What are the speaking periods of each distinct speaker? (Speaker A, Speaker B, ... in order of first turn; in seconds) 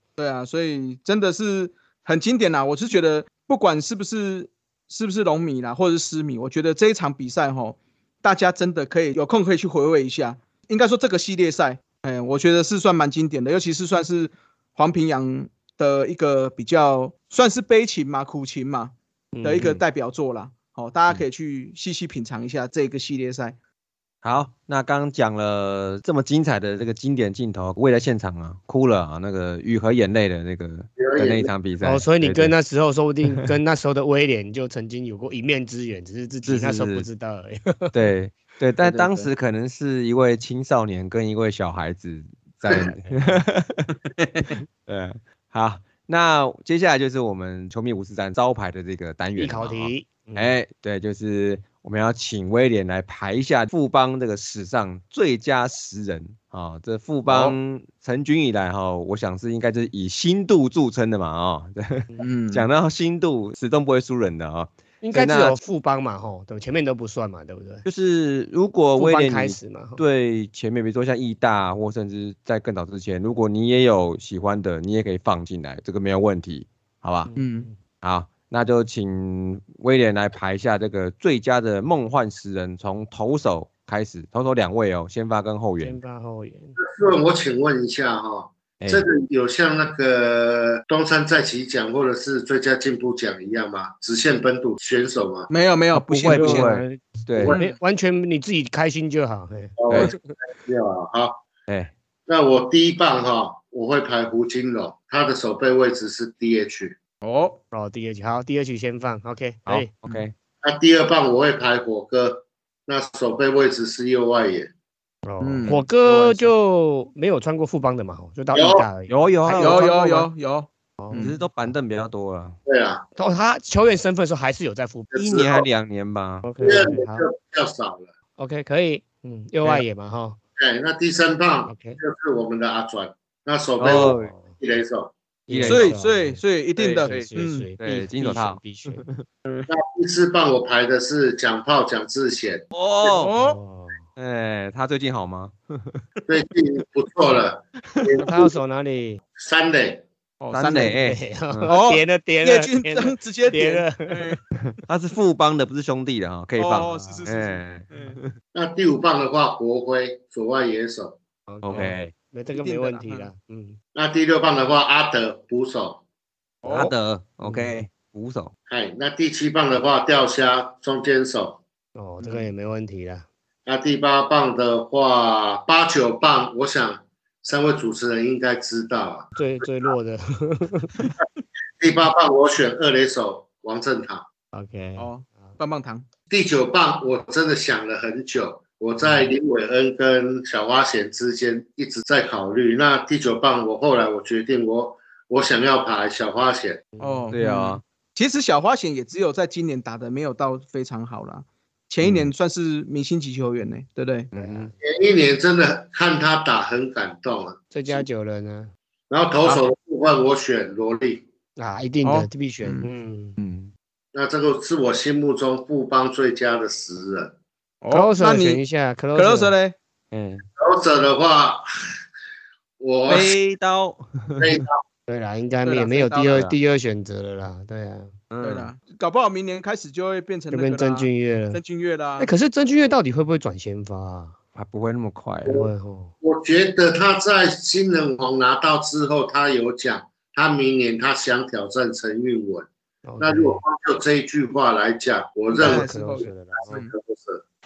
Speaker A: 0.2-23.6, 38.8-39.3, 44.2-44.5, 62.2-62.7, 77.4-77.7, 95.5-96.7, 107.2-107.6, 115.4-115.8, 119.6-121.4, 135.6-137.7, 143.0-143.6, 150.4-151.0, 151.7-154.4, 156.6-158.2, 162.5-163.3, 166.6-166.9, 172.2-172.5, 185.0-186.1, 197.0-204.3, 212.0-212.9, 217.8-218.6, 219.2-219.8, 225.7-226.4, 228.4-232.3, 245.5-246.9
Speaker B: 19.3-19.8, 31.8-38.0, 42.8-43.1, 49.4-50.5, 57.3-57.5, 65.0-67.8, 69.0-70.0, 77.3-77.8, 85.8-86.8, 96.3-100.3, 107.7-109.9, 115.2-120.3, 121.0-121.3, 123.2-125.1, 126.4-127.3, 128.4-130.4, 131.7-132.0, 133.9-134.5, 135.5-136.4, 137.0-139.1, 143.4-144.0, 148.2-149.2, 150.7-154.4, 156.9-157.2, 161.5-163.8, 167.4-167.7, 171.9-173.2, 179.4-180.9, 184.5-185.6, 196.9-197.3, 204.4-204.7, 207.7-208.7, 211.6-213.4, 217.9-219.5, 225.1-228.1, 230.5-231.6, 232.2-234.3, 235.5-236.1, 243.1-243.6, 245.6-246.8
Speaker C: 24.2-32.5, 36.5-37.1, 37.9-43.9, 44.9-65.6, 67.8-77.3, 78.0-86.0, 88.8-89.0, 95.9-97.6, 101.7-101.9, 109.7-110.3, 115.7-116.5, 119.1-119.8, 121.1-122.6, 125.1-126.5, 133.8-134.3, 135.5-136.0, 136.8-139.2, 142.7-143.3, 144.2-146.1, 150.5-151.7, 154.9-158.3, 161.6-162.1, 166.6-168.5, 197.3-197.8, 202.0-202.3, 204.3-204.7, 213.4-213.7, 220.1-220.4, 223.1-224.6, 226.3-226.6, 228.3-228.7, 234.6-235.6
Speaker D: 31.0-31.5, 86.8-95.5, 99.8-101.4, 102.3-107.0, 110.6-114.7, 118.5-118.9, 122.7-123.0, 125.1-125.7, 126.6-128.1, 130.6-135.1, 139.7-142.6, 146.3-148.5, 149.4-150.1, 158.5-161.2, 163.9-166.0, 168.7-171.6, 173.7-179.3, 181.8-184.2, 186.3-196.9, 204.8-208.0, 209.1-211.2, 214.1-217.3, 220.6-221.9, 222.8-223.3, 224.4-224.8, 236.2-242.7, 243.2-247.4